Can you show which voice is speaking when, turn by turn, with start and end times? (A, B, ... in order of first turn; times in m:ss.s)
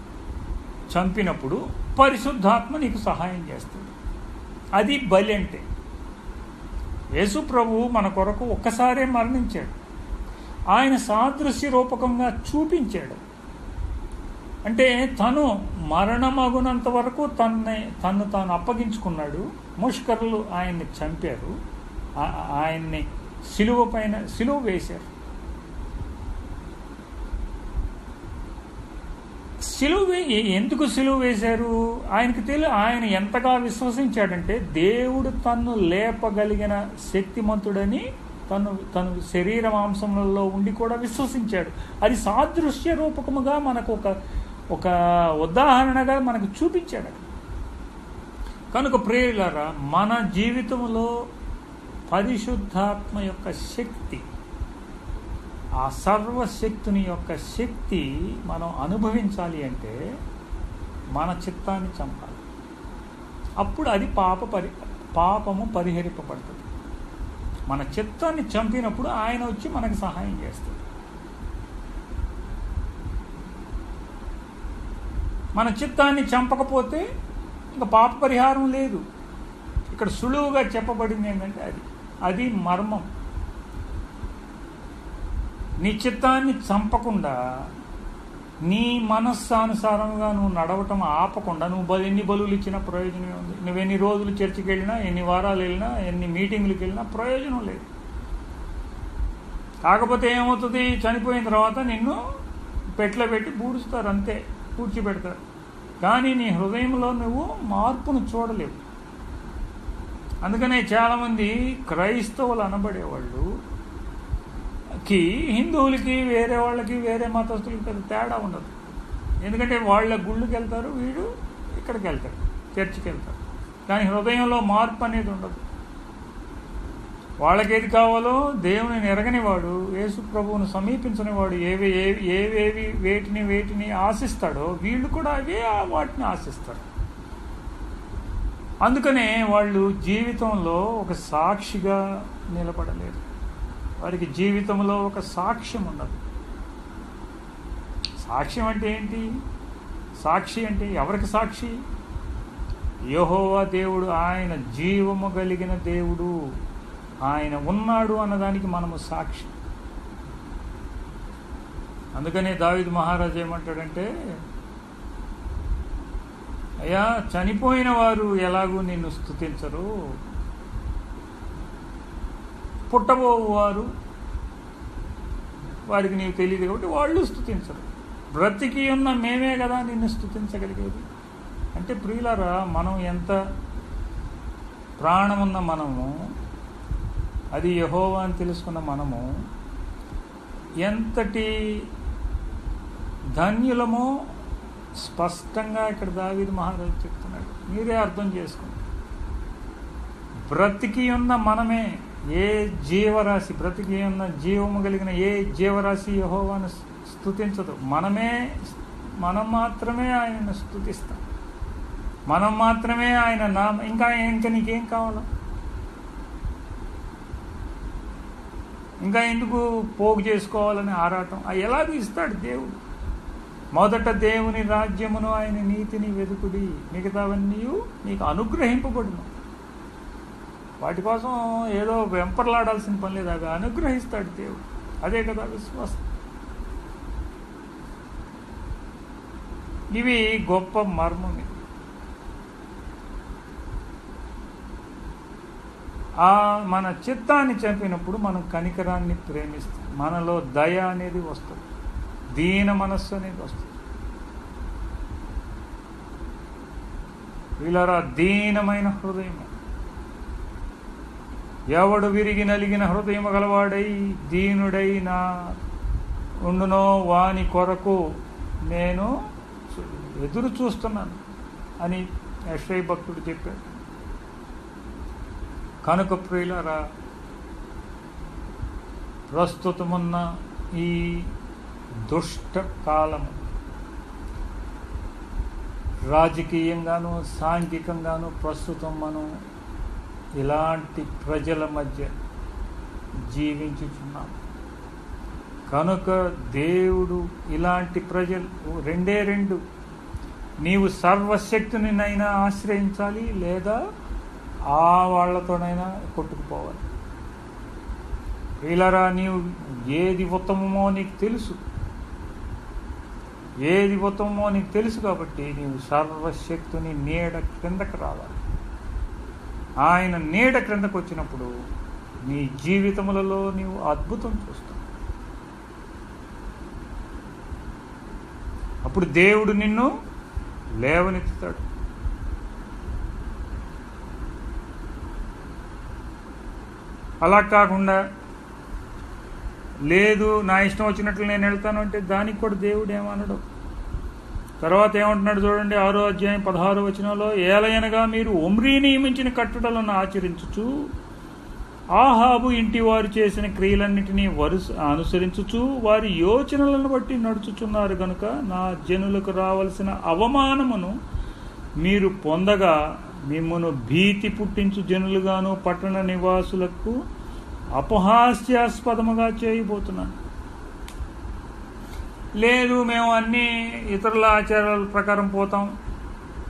0:00.9-0:03.9 A
0:04.8-0:05.6 A
0:07.2-0:09.8 A
0:10.7-0:13.2 A
0:14.7-0:21.5 A
0:22.2-0:25.1 A
0:29.6-0:44.1 A
0:44.7-0:47.3 A
0:48.7-0:51.1 A
0:52.1-0:54.2 A
0:55.8-1:00.0 A
1:01.2-1:02.4 A
1:03.6-1:06.6 A
1:07.7-1:10.8 A
1:15.6-1:17.0 A
1:17.7-1:19.0 A
1:19.9-1:23.1 A
1:25.8-1:27.4 A
1:28.7-1:37.9 A
1:39.8-1:42.2 A
1:43.0-1:45.4 A
1:46.0-1:48.8 A
1:50.4-1:53.5 A
1:55.0-2:05.6 A
2:07.4-2:16.8 A
2:18.8-2:22.0 A
2:22.5-2:23.2 A
2:24.0-2:26.2 A
2:28.2-2:29.2 A
2:30.2-2:31.8 A
2:33.1-2:36.4 A
2:37.3-2:39.5 A
2:42.2-2:44.1 A
2:46.8-2:49.9 A
2:52.9-2:53.9 A
2:55.9-3:01.0 A
3:01.8-3:03.4 A
3:05.0-3:06.1 A
3:07.5-3:09.3 A
3:10.8-3:11.5 A
3:13.4-3:14.1 A
3:15.0-3:18.8 A
3:20.5-3:31.2 A
3:32.3-3:35.3 A
3:39.0-3:42.8 A
3:43.8-3:49.3 A
3:50.8-3:56.0 A
4:00.0-4:01.6 A
4:06.2-4:11.6 A
4:12.4-4:13.8 A
4:17.6-4:19.5 A
4:21.7-4:25.2 A
4:26.5-4:28.0 A
4:28.7-4:29.1 A
4:29.7-4:31.2 A
4:31.8-4:33.8 A
4:35.8-4:36.8 A
4:39.3-4:41.3 A
4:42.0-4:43.4 A
4:46.1-4:49.3 A
4:50.4-4:52.1 A
4:53.3-4:54.4 A
4:55.7-4:59.6 A
5:00.6-5:03.8 A
5:04.7-5:06.8 A
5:08.6-5:11.6 A
5:13.6-5:18.4 A
5:19.8-5:21.5 A
5:22.3-5:24.8 A
5:28.8-5:29.9 A
5:30.8-5:31.6 A
5:37.2-5:38.0 A
5:39.9-5:43.4 A
5:44.6-5:50.7 A
5:52.0-6:01.0 A
6:01.8-6:07.0 A
6:07.8-6:10.2 A
6:12.4-6:15.7 A